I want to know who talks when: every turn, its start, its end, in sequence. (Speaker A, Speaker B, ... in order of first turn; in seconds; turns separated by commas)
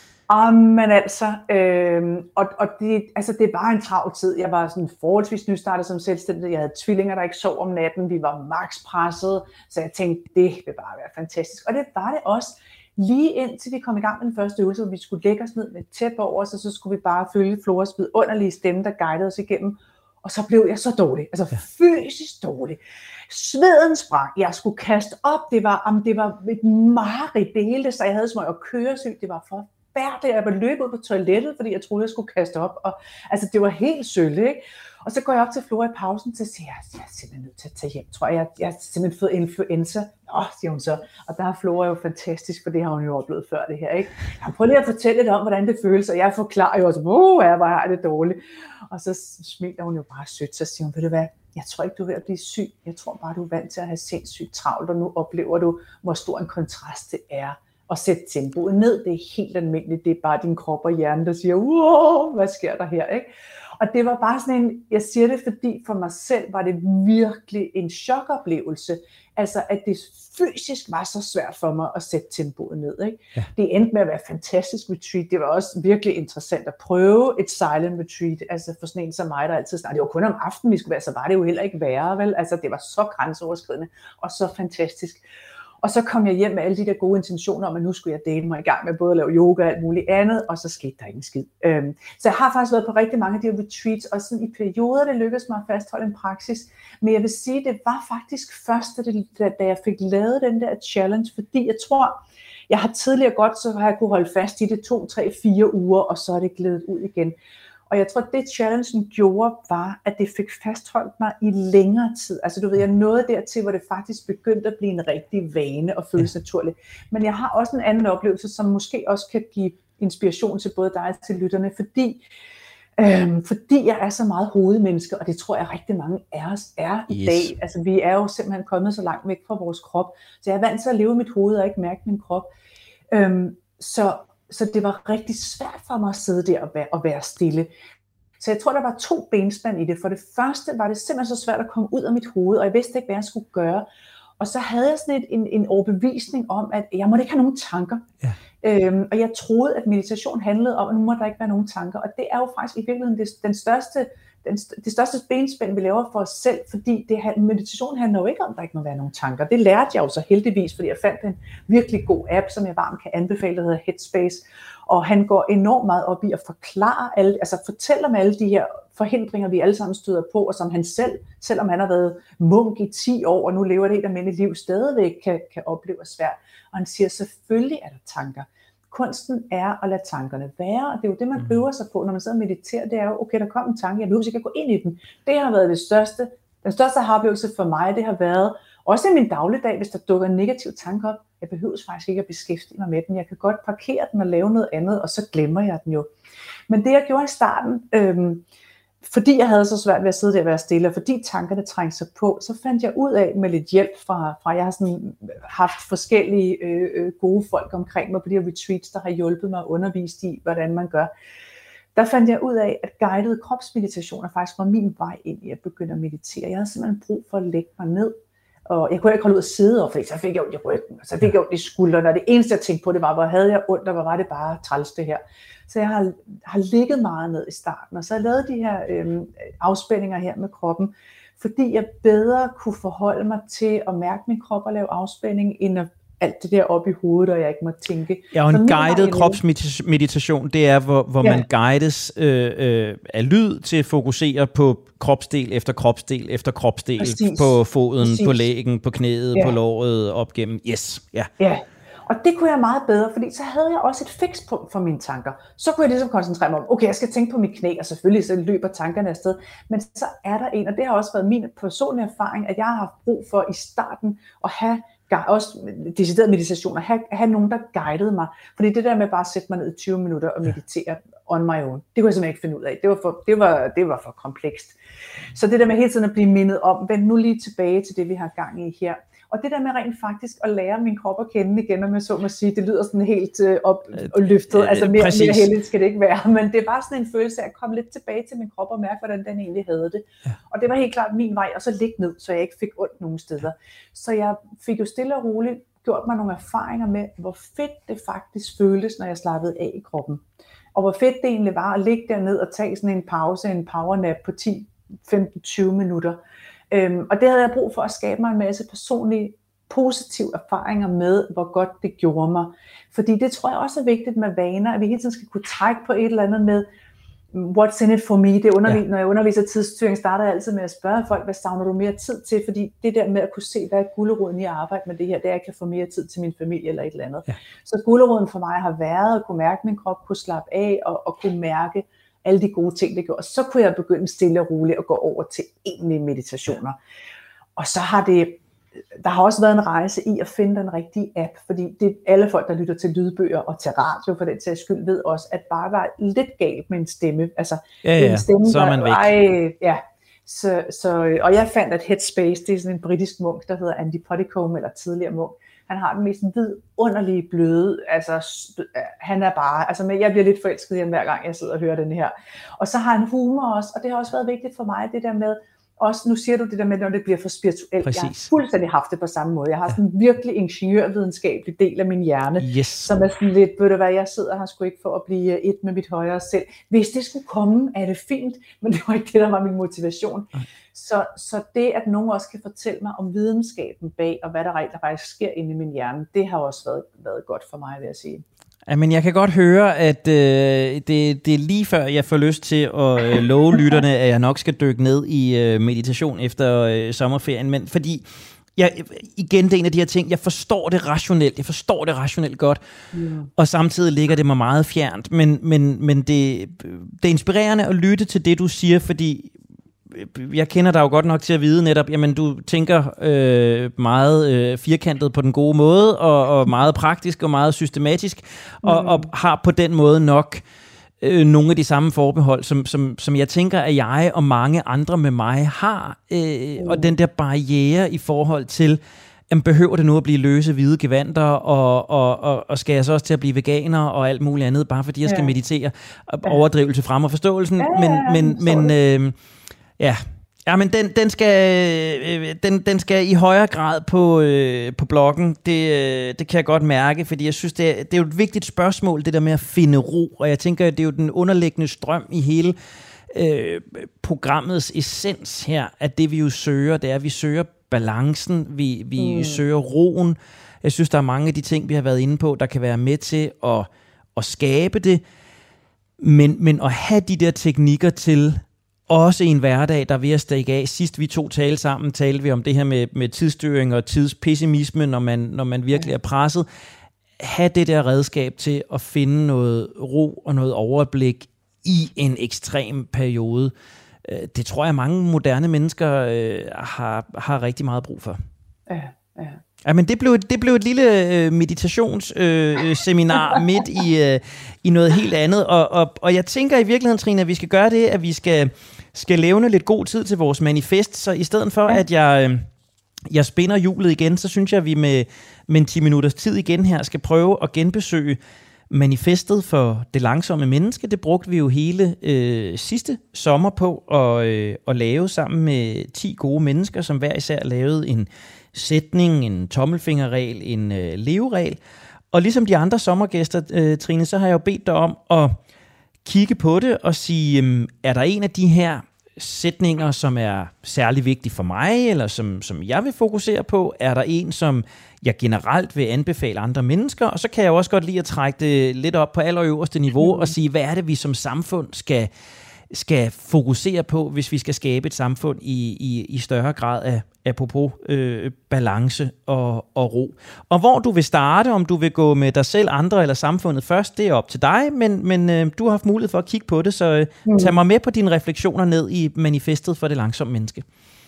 Speaker A: 0.3-48.4, Speaker A: 48.9-63.3, Speaker A: 63.8-85.2, Speaker A: 85.8-107.3, Speaker A: 107.9-122.2, Speaker A: 123.0-132.5, Speaker B: 127.1-127.5, Speaker A: 133.1-137.7, Speaker A: 138.4-143.8, Speaker A: 144.4-148.1, Speaker A: 148.6-196.1, Speaker A: 196.7-198.4, Speaker A: 199.0-211.1, Speaker A: 211.9-218.1, Speaker A: 218.7-239.4, Speaker B: 238.3-251.3, Speaker A: 247.0-248.5, Speaker A: 251.4-274.8, Speaker A: 275.3-300.2, Speaker B: 284.5-285.5, Speaker A: 300.7-306.2, Speaker A: 306.7-316.6, Speaker A: 317.3-336.8, Speaker A: 337.6-338.4, Speaker A: 339.0-388.2, Speaker B: 347.8-349.1, Speaker B: 367.8-368.3, Speaker B: 372.4-373.0, Speaker B: 388.7-402.6, Speaker A: 402.9-403.3, Speaker B: 403.4-409.3, Speaker B: 409.9-420.4, Speaker A: 418.6-419.1, Speaker B: 421.0-439.1, Speaker A: 426.6-426.9, Speaker A: 435.0-435.3, Speaker A: 437.6-438.7, Speaker B: 439.8-452.6, Speaker B: 453.1-465.0, Speaker A: 459.0-459.4, Speaker B: 466.0-476.4, Speaker B: 477.2-483.5, Speaker B: 484.0-488.2, Speaker A: 488.7-489.4, Speaker B: 489.6-502.5, Speaker B: 503.1-508.2, Speaker B: 508.7-521.6, Speaker B: 522.1-525.4, Speaker B: 526.0-542.1, Speaker A: 540.0-540.3, Speaker B: 542.7-560.6, Speaker A: 557.2-557.5